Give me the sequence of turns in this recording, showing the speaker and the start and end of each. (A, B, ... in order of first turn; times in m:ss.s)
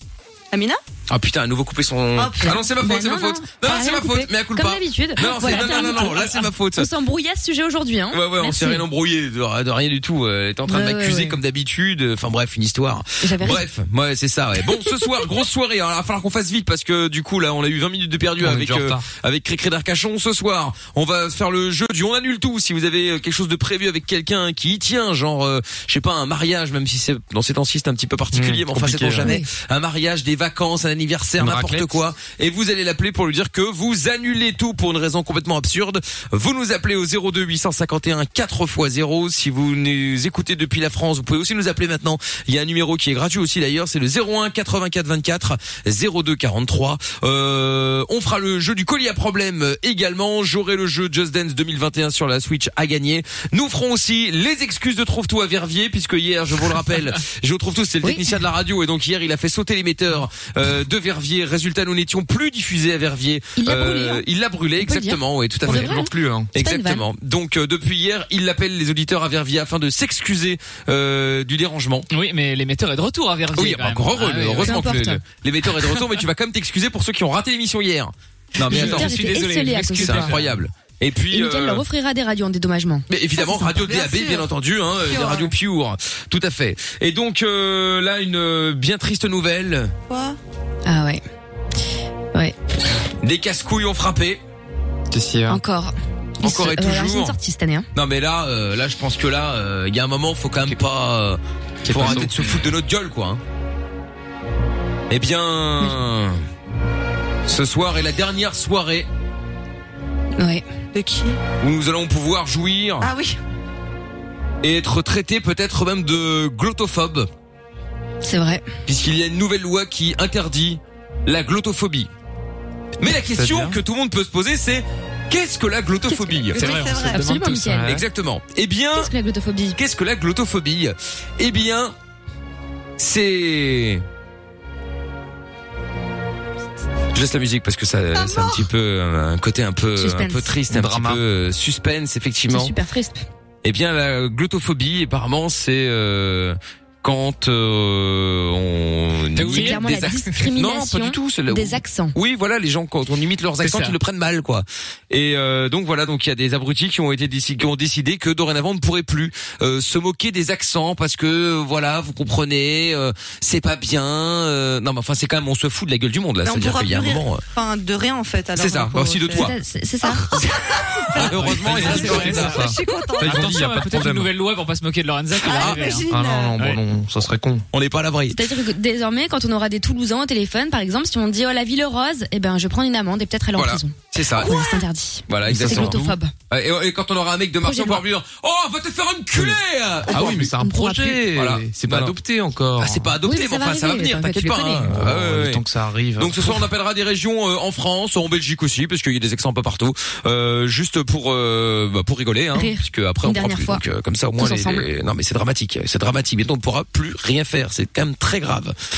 0:00.5-0:00.8 A
0:01.1-0:06.9 B
0:02.2-0:02.6 A
0:02.4-0:08.8 C
0:08.1-1:12.1 B
0:10.7-0:11.4 C
0:13.2-0:13.6 C
0:18.4-0:19.1 D
0:28.3-0:29.3 D
0:31.4-0:31.9 D
0:58.0-0:58.3 C
1:03.6-1:04.2 C
1:04.8-1:07.1 C
1:05.6-1:06.5 D
1:12.1-1:14.8 E
1:13.6-1:19.4 B
1:14.6-1:15.2 C
1:18.7-1:20.6 E
1:18.7-1:20.4 C
1:20.0-1:21.8 B
1:21.3-1:23.1 C
1:23.1-1:29.9 B
1:23.4-1:24.5 A
1:25.0-1:25.5 A
1:30.1-1:30.4 A
1:30.9-1:31.2 C
1:33.2-1:34.4 B
1:35.1-1:35.6 D
1:35.5-1:37.9 C
1:36.4-1:37.4 B
1:37.9-1:43.4 B
1:41.8-1:42.6 D
1:45.1-1:46.4 B
1:47.5-1:49.1 B
1:50.4-1:50.6 C
1:50.9-1:51.4 A
1:51.6-1:53.1 B
1:53.0-1:53.4 A
1:54.6-1:57.3 B
1:58.2-1:58.7 C
1:58.9-2:02.1 B
2:03.0-2:06.7 B
2:03.2-2:03.8 D
2:06.1-2:07.9 C
2:06.6-2:07.2 A
2:06.6-2:07.8 E
2:07.6-2:08.0 D
2:07.8-2:09.1 B
2:09.0-2:09.8 C
2:09.8-2:12.0 B
2:13.0-2:14.0 B
2:17.1-2:22.7 B
2:18.2-2:18.6 A
2:20.0-2:20.6 C
2:20.7-2:21.2 D
2:22.5-2:23.3 C
2:23.6-2:47.4 B
2:29.4-2:30.3 E
2:29.5-2:32.2 C
2:33.6-2:34.0 E
2:46.5-2:53.4 A
2:48.6-2:49.5 B
2:49.3-2:50.5 C
2:51.1-2:52.6 B
2:51.2-2:54.3 D
2:51.7-2:52.6 E
2:53.2-2:56.8 E
2:55.4-2:56.6 A
2:55.5-2:56.0 B
2:56.1-2:57.7 D
2:57.7-2:58.4 B
2:58.3-3:06.3 C
3:03.6-3:04.5 B
3:04.4-3:04.8 A
3:05.3-3:10.6 B
3:05.5-3:06.2 D
3:07.6-3:08.0 C
3:10.1-3:13.1 D
3:10.6-3:11.3 C
3:11.3-3:12.2 B
3:12.8-3:15.6 B
3:13.2-3:14.9 C
3:14.9-3:16.6 D
3:16.2-3:28.8 B
3:22.6-3:23.8 C
3:24.4-3:24.9 C